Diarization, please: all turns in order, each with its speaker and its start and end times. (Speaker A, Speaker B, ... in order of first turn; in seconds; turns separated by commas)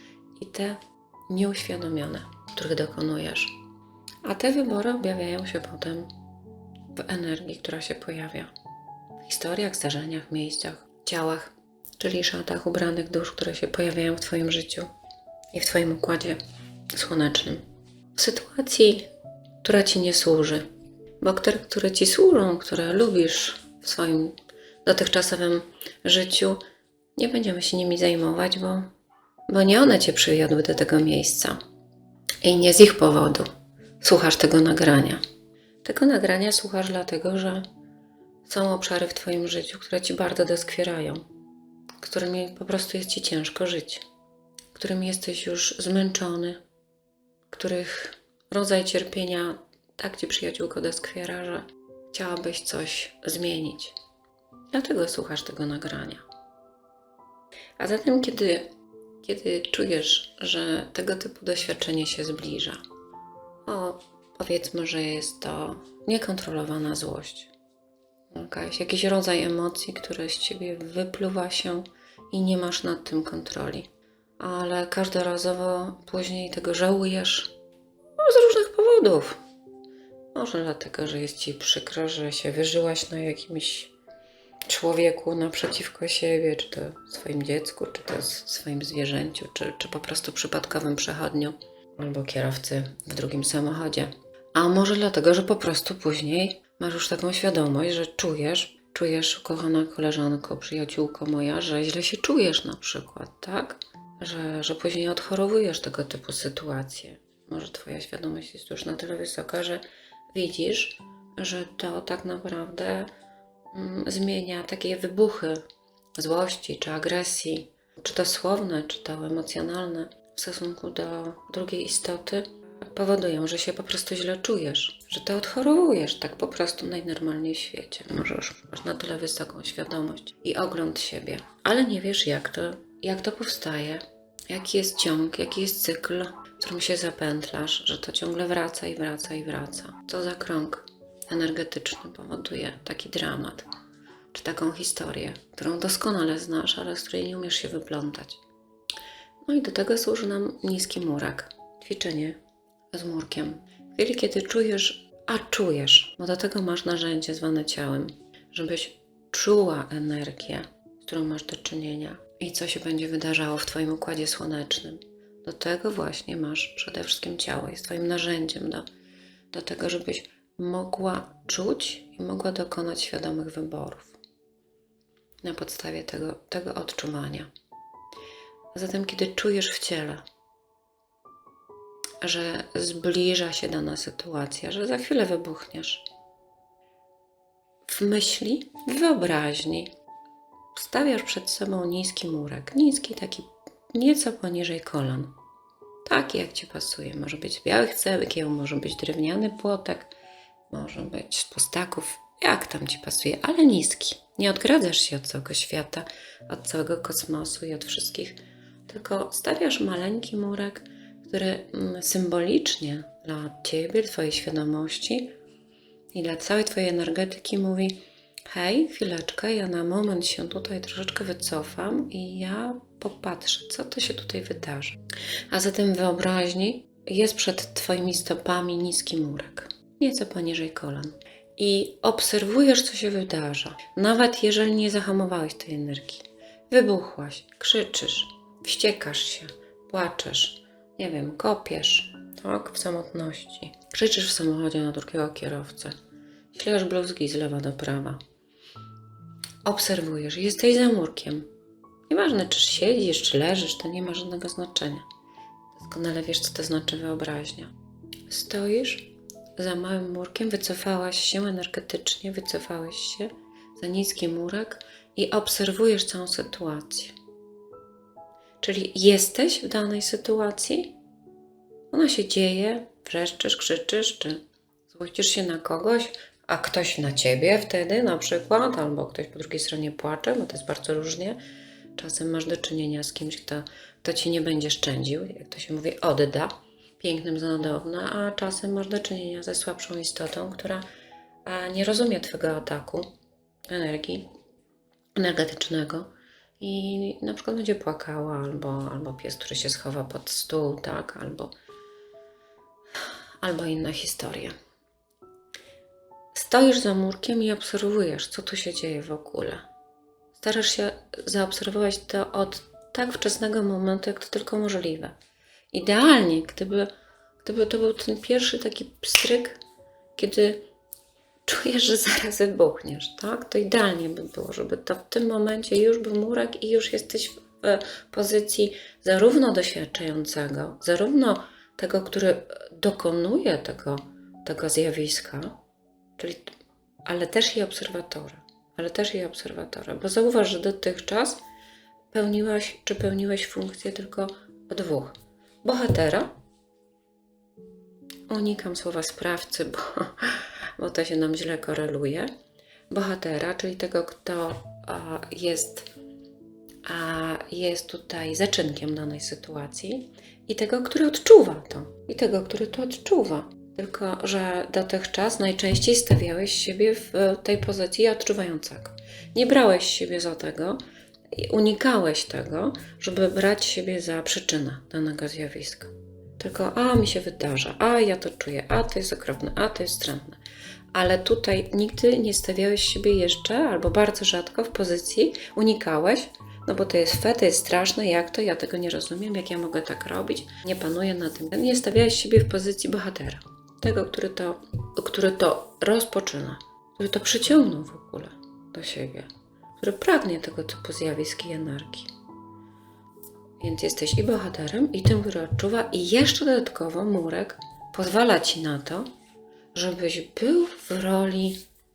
Speaker A: 0.4-0.8, Speaker A: 1.3-3.6, Speaker A: 4.2-6.1, Speaker A: 6.9-8.5, Speaker A: 9.2-14.9, Speaker A: 15.5-16.4, Speaker A: 16.9-17.6, Speaker A: 18.1-19.1, Speaker A: 19.6-20.6, Speaker A: 21.2-26.6, Speaker A: 27.2-28.9, Speaker A: 29.5-31.6, Speaker A: 32.4-33.5, Speaker A: 34.0-35.2, Speaker A: 35.8-37.7, Speaker A: 38.5-41.2, Speaker A: 42.0-44.0, Speaker A: 44.7-46.6, Speaker A: 47.5-54.0, Speaker A: 54.7-56.2, Speaker A: 57.8-58.7, Speaker A: 59.2-62.8, Speaker A: 63.7-67.5, Speaker A: 68.3-77.5, Speaker A: 78.2-79.4, Speaker A: 80.3-83.9, Speaker A: 84.7-113.1, Speaker A: 113.7-115.6, Speaker A: 116.2-143.7, Speaker A: 144.3-148.4, Speaker A: 149.4-152.4, Speaker A: 152.9-168.9, Speaker A: 169.5-174.2, Speaker A: 175.4-177.5, Speaker A: 178.7-180.2, Speaker A: 182.2-186.1, Speaker A: 187.9-189.9, Speaker A: 190.7-195.3, Speaker A: 196.1-200.1, Speaker A: 200.7-215.3, Speaker A: 216.1-225.0, Speaker A: 225.5-245.9, Speaker A: 246.5-248.2, Speaker A: 249.7-251.5, Speaker A: 252.1-255.1, Speaker A: 255.7-257.7, Speaker A: 258.3-267.2, Speaker A: 268.6-270.9, Speaker A: 271.9-281.4, Speaker A: 282.0-290.9, Speaker A: 291.5-293.1, Speaker A: 293.7-294.3, Speaker A: 295.2-301.5, Speaker A: 303.4-304.6, Speaker A: 306.3-309.7, Speaker A: 310.4-315.1, Speaker A: 315.7-316.9, Speaker A: 317.4-319.6, Speaker A: 320.2-320.6, Speaker A: 321.4-335.6, Speaker A: 336.2-336.5, Speaker A: 337.1-341.4, Speaker A: 342.1-346.3, Speaker A: 348.3-352.3, Speaker A: 352.9-355.9, Speaker A: 356.8-370.8, Speaker A: 371.3-380.4, Speaker A: 380.9-402.1, Speaker A: 403.6-409.1, Speaker A: 409.7-411.6